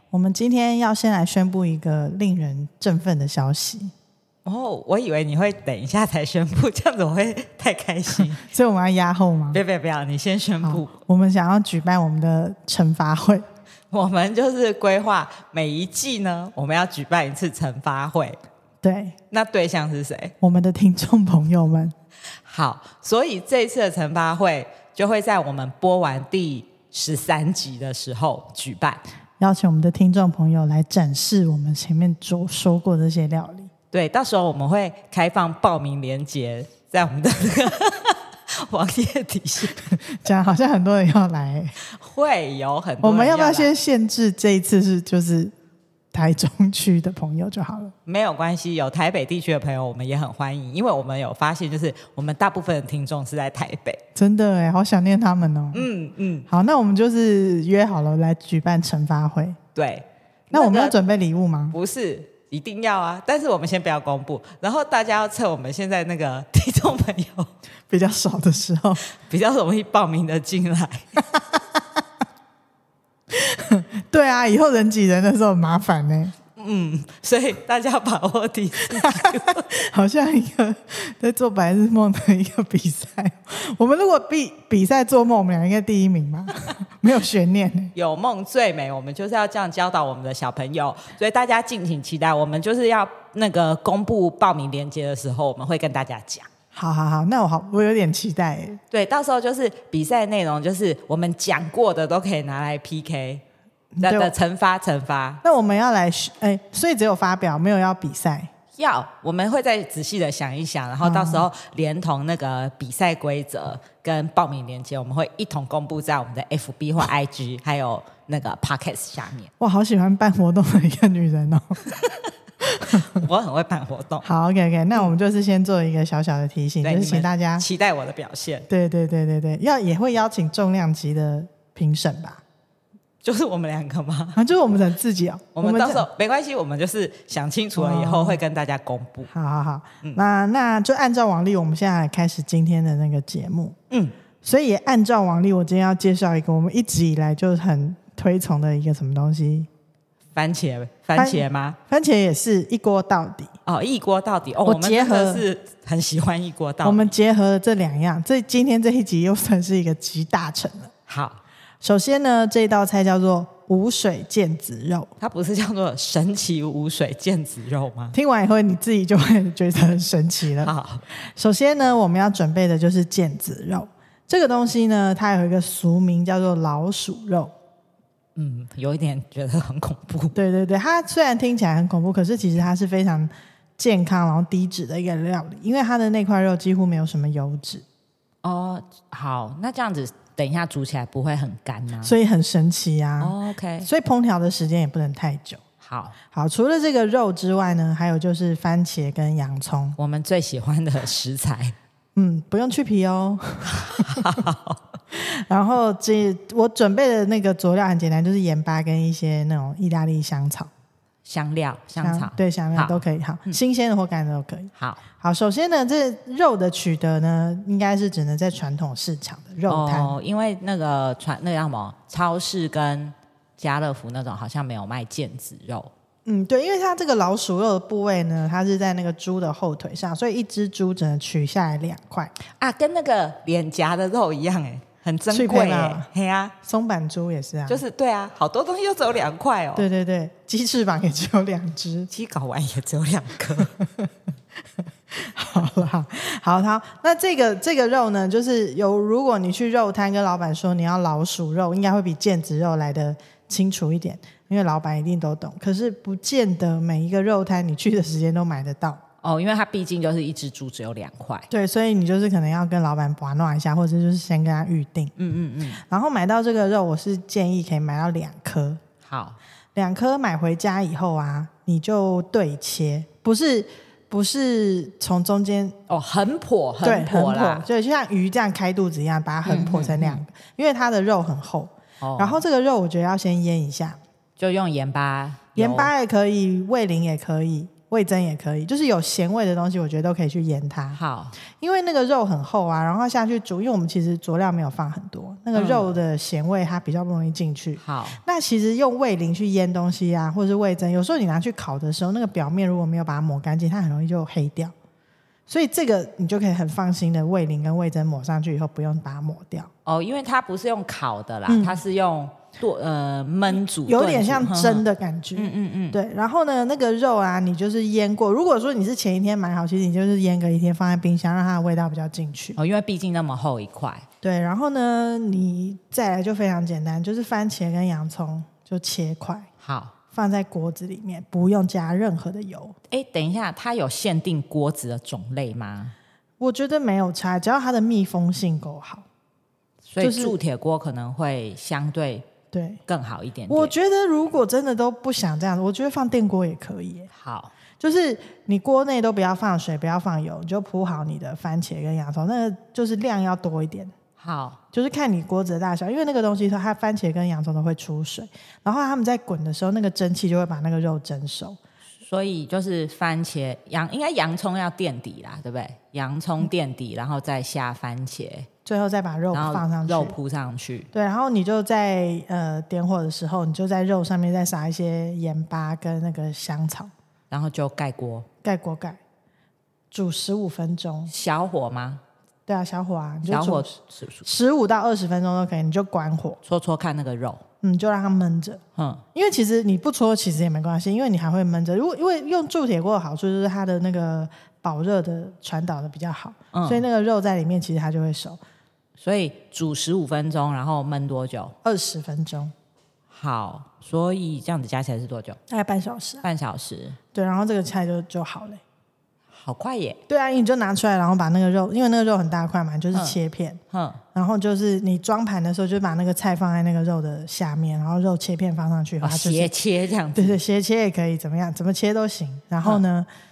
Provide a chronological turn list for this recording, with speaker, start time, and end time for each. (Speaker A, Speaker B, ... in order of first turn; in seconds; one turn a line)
Speaker A: 0.1-3.9
Speaker B: 4.5-8.5
Speaker A: 8.4-9.6
Speaker B: 9.5-10.9
Speaker A: 10.6-13.4
Speaker B: 13.9-18.4
Speaker A: 18.8-19.1
Speaker B: 19.3-20.3
Speaker A: 20.4-21.9
Speaker B: 22.4-29.0
Speaker A: 29.4-33.7
Speaker B: 33.9-40.0
Speaker A: 40.1-41.7
Speaker B: 41.9-43.7
Speaker A: 43.0-45.5
Speaker A: 46.1-47.9
Speaker B: 48.1-54.0
Speaker A: 54.2-55.9
Speaker B: 55.7-56.5
Speaker A: 56.5-59.6
Speaker B: 59.8-61.0
Speaker A: 60.5-61.8
Speaker B: 61.7-67.5
Speaker A: 67.9-69.0
Speaker B: 69.1-71.2
Speaker A: 73.3-76.3
Speaker B: 76.6-79.7
Speaker A: 78.9-87.9
Speaker B: 88.0-96.5
Speaker A: 96.7-98.8
Speaker B: 98.9-103.4
Speaker A: 104.0-104.3
Speaker B: 104.0-105.4
Speaker A: 105.4-108.5
Speaker B: 108.8-119.5
Speaker A: 111.0-111.5
Speaker A: 119.6-121.8
Speaker A: 122.8-123.3
Speaker B: 122.9-124.3
Speaker A: 124.2-127.7
Speaker B: 126.8-128.7
Speaker A: 128.7-132.4
Speaker B: 133.2-134.4
Speaker A: 134.3-136.1
Speaker B: 135.6-139.3
Speaker A: 137.8-138.4
Speaker A: 139.3-143.8
Speaker A: 144.4-149.7
Speaker B: 150.3-151.8
Speaker A: 151.1-153.5
Speaker B: 153.7-157.1
Speaker A: 154.6-155.5
Speaker A: 156.8-160.9
Speaker B: 161.1-161.4
Speaker A: 161.8-165.1
Speaker B: 165.2-168.2
Speaker A: 168.1-177.5
Speaker B: 170.6-171.0
Speaker B: 178.4-180.4
Speaker A: 180.3-187.8
Speaker B: 188.4-192.2
Speaker A: 192.0-195.6
Speaker B: 193.2-193.9
Speaker B: 195.8-196.2
Speaker A: 196.3-200.0
Speaker B: 200.0-201.7
Speaker A: 202.2-204.4
Speaker B: 203.7-204.8
Speaker A: 205.1-210.7
Speaker B: 211.2-213.6
Speaker A: 212.0-220.1
Speaker B: 214.8-215.0
Speaker B: 219.7-225.9
Speaker A: 226.2-232.3
Speaker B: 232.6-236.5
Speaker A: 235.3-236.1
Speaker A: 236.6-237.8
Speaker B: 237.7-239.9
Speaker A: 239.8-242.1
Speaker B: 242.1-243.8
Speaker A: 245.1-259.0
Speaker B: 259.2-261.5
Speaker A: 261.5-265.1
Speaker B: 265.2-265.8
Speaker A: 265.9-268.8
Speaker B: 269.0-269.4
Speaker A: 269.8-275.8
Speaker B: 275.9-277.7
Speaker A: 276.8-284.0
Speaker B: 279.4-280.2
Speaker B: 282.0-282.4
Speaker B: 284.4-285.9
Speaker A: 285.6-291.0
Speaker B: 290.9-291.4
Speaker A: 291.6-304.7
Speaker B: 295.5-295.9
Speaker B: 297.8-298.2
Speaker A: 305.5-309.7
Speaker B: 309.9-314.8
Speaker A: 311.5-311.8
Speaker A: 313.8-322.6
Speaker B: 315.4-316.0
Speaker B: 322.6-324.1
Speaker A: 324.2-329.5
Speaker B: 329.6-329.9
Speaker A: 330.1-332.8
Speaker B: 332.9-335.9
Speaker A: 336.4-339.0
Speaker B: 339.8-342.3
Speaker A: 340.0-340.4
Speaker A: 342.5-342.8
Speaker B: 342.9-343.7
Speaker A: 343.5-347.1
Speaker B: 347.1-347.5
Speaker A: 347.8-353.9
Speaker B: 354.2-354.6
Speaker A: 354.7-361.6
Speaker B: 362.0-368.5
Speaker A: 368.6-370.2
Speaker B: 369.3-370.9
Speaker A: 370.9-376.9
Speaker B: 377.3-378.3
Speaker A: 378.4-379.0
Speaker A: 379.9-381.1
Speaker B: 381.1-382.0
Speaker A: 382.5-386.4
Speaker B: 383.2-384.3
Speaker B: 386.4-387.4
Speaker A: 387.6-388.6
Speaker B: 388.8-389.0
Speaker A: 389.1-398.4
Speaker B: 396.5-396.8
Speaker B: 399.0-401.6
Speaker A: 401.6-402.5
Speaker B: 403.1-405.4
Speaker A: 405.5-406.2
Speaker B: 406.2-407.0
Speaker A: 407.1-408.6
Speaker B: 409.3-410.0
Speaker A: 410.1-413.6
Speaker B: 413.7-414.0
Speaker A: 414.1-419.5
Speaker B: 419.0-420.4
Speaker A: 420.1-423.1